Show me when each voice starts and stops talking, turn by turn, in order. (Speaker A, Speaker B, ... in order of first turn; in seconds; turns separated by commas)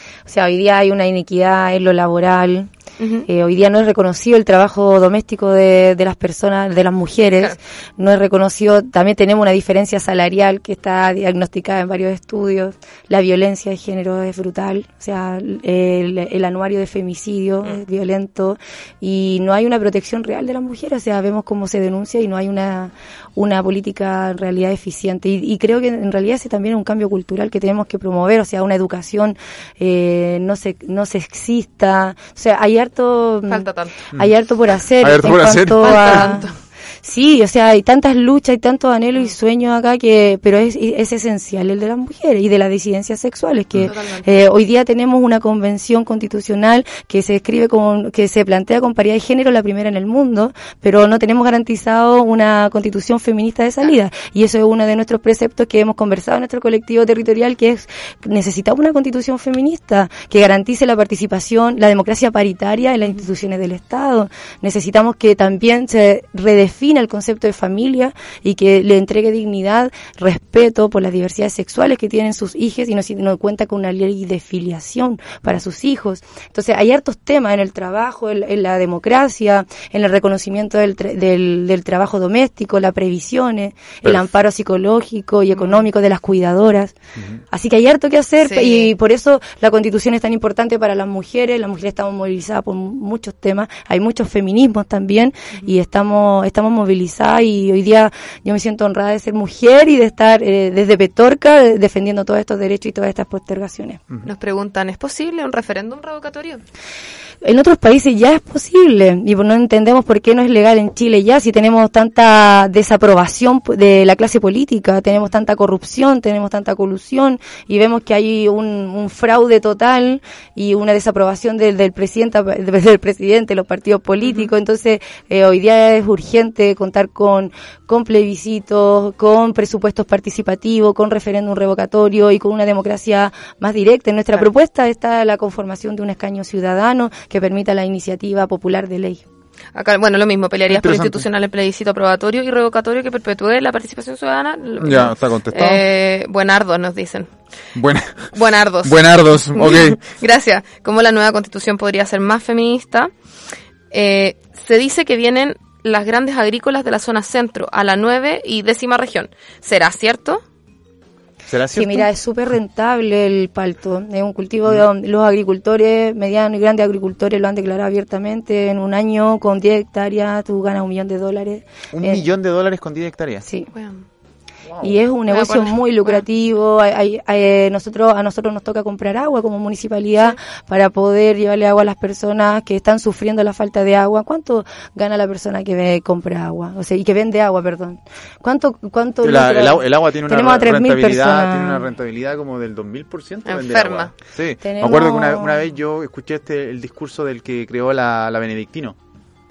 Speaker A: 0.2-2.7, Speaker B: 3.0-3.2, Speaker A: 3.2-36.5, Speaker B: 33.5-33.9, Speaker C: 35.0-36.3, Speaker B: 35.8-36.5, Speaker A: 37.0-86.9, Speaker B: 43.8-44.3, Speaker C: 84.0-84.3, Speaker B: 85.5-85.8, Speaker A: 87.5-104.0, Speaker B: 88.4-88.9, Speaker B: 104.2-106.6, Speaker A: 107.4-139.2, Speaker B: 139.7-147.3, Speaker C: 140.7-141.2, Speaker C: 144.8-145.8, Speaker C: 147.7-150.0, Speaker B: 148.3-153.1, Speaker B: 153.9-160.4, Speaker C: 161.5-162.1, Speaker A: 161.7-172.2, Speaker C: 171.9-173.4, Speaker B: 173.7-174.0, Speaker A: 174.8-191.8, Speaker B: 175.3-176.2, Speaker C: 189.2-199.0, Speaker B: 193.4-194.1, Speaker A: 194.6-195.6